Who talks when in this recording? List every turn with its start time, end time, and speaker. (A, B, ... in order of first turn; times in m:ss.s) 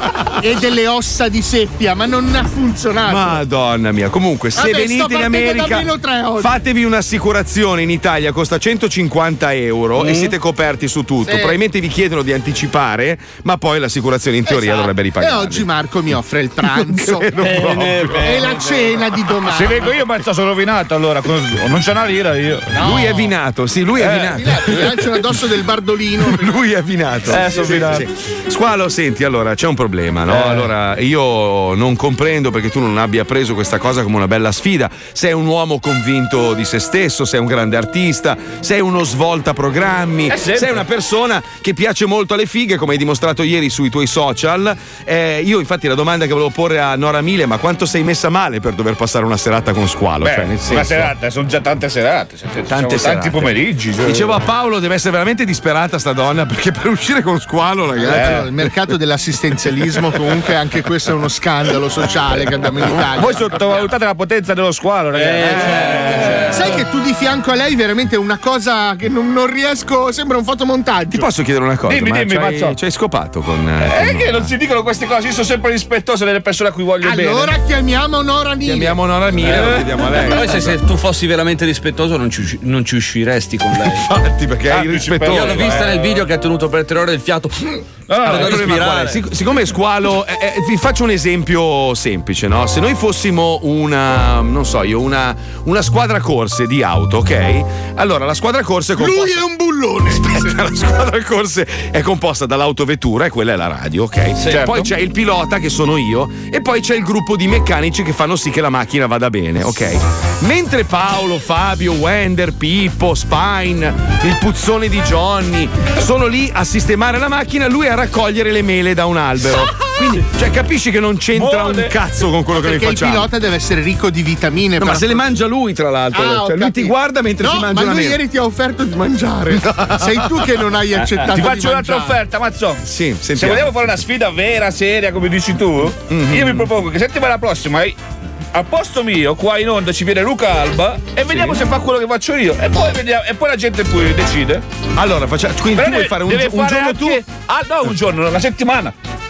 0:00.4-0:03.4 A
0:03.1-0:05.9 B
0:04.5-0:06.5 A
0:06.4-0:15.7 B
0:10.0-0:10.3 C
0:11.2-0:11.6 A
0:14.5-0:17.3 A
0:16.7-0:18.4 B
0:17.4-0:22.8 C
0:18.2-0:19.9 A
0:22.7-0:23.3 A
0:22.8-0:24.9 B
0:24.0-0:24.8 C
0:24.3-0:26.6 A
0:26.2-0:51.1 B
0:27.2-0:28.0 C
0:27.3-0:27.9 A
0:30.3-0:30.7 C
0:40.3-0:40.8 C
0:50.2-0:54.4 C
0:52.7-0:58.5 B
0:58.0-1:03.7 A
0:58.1-0:58.4 C
1:03.0-1:06.8 C
1:06.5-1:11.2 A
1:11.1-1:14.5 B
1:11.9-1:12.8 C
1:13.8-1:17.5 C
1:17.0-1:19.0 A
1:18.6-1:20.8 B
1:19.4-1:20.6 C
1:20.3-1:24.0 D
1:24.0-1:25.8 B
1:24.7-1:26.2 C
1:25.2-1:29.2 D
1:28.1-1:28.9 C
1:28.3-1:39.4 B
1:39.0-1:40.2 A
1:40.1-2:03.3 B
1:44.5-1:44.8 C
2:01.3-2:01.9 C
2:02.6-2:05.2 A
2:04.8-2:08.2 B
2:06.1-2:12.2 A
2:11.0-2:18.0 C
2:12.8-2:13.7 B
2:16.1-2:16.7 B
2:18.5-2:24.6 C
2:21.3-2:21.6 B
2:24.9-2:27.2 B
2:25.7-2:28.9 C